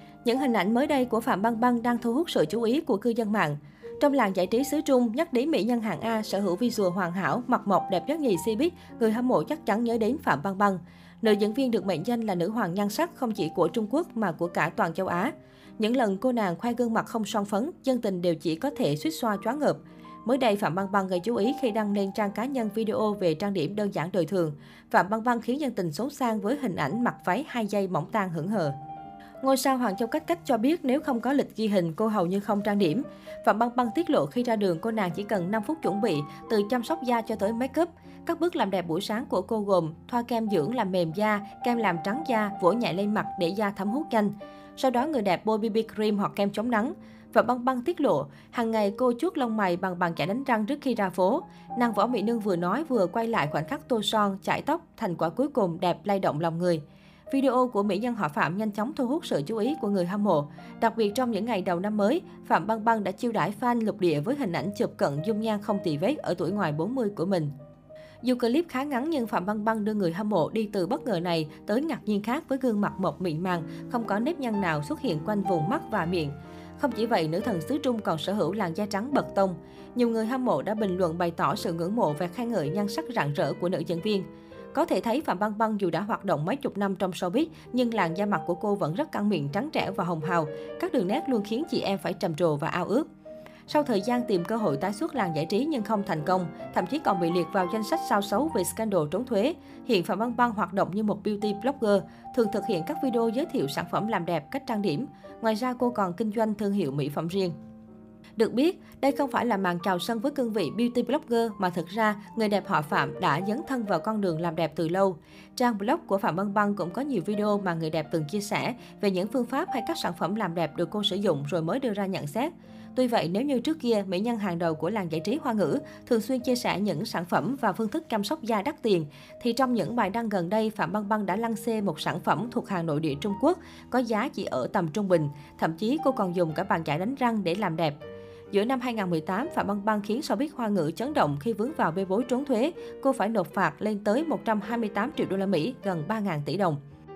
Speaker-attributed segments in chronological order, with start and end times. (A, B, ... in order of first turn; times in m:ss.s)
0:00.2-0:28.7 A
0:29.4-1:07.5 A
1:08.2-1:33.1 A
1:33.7-1:47.5 A
1:48.4-2:18.0 A
2:18.5-2:26.8 A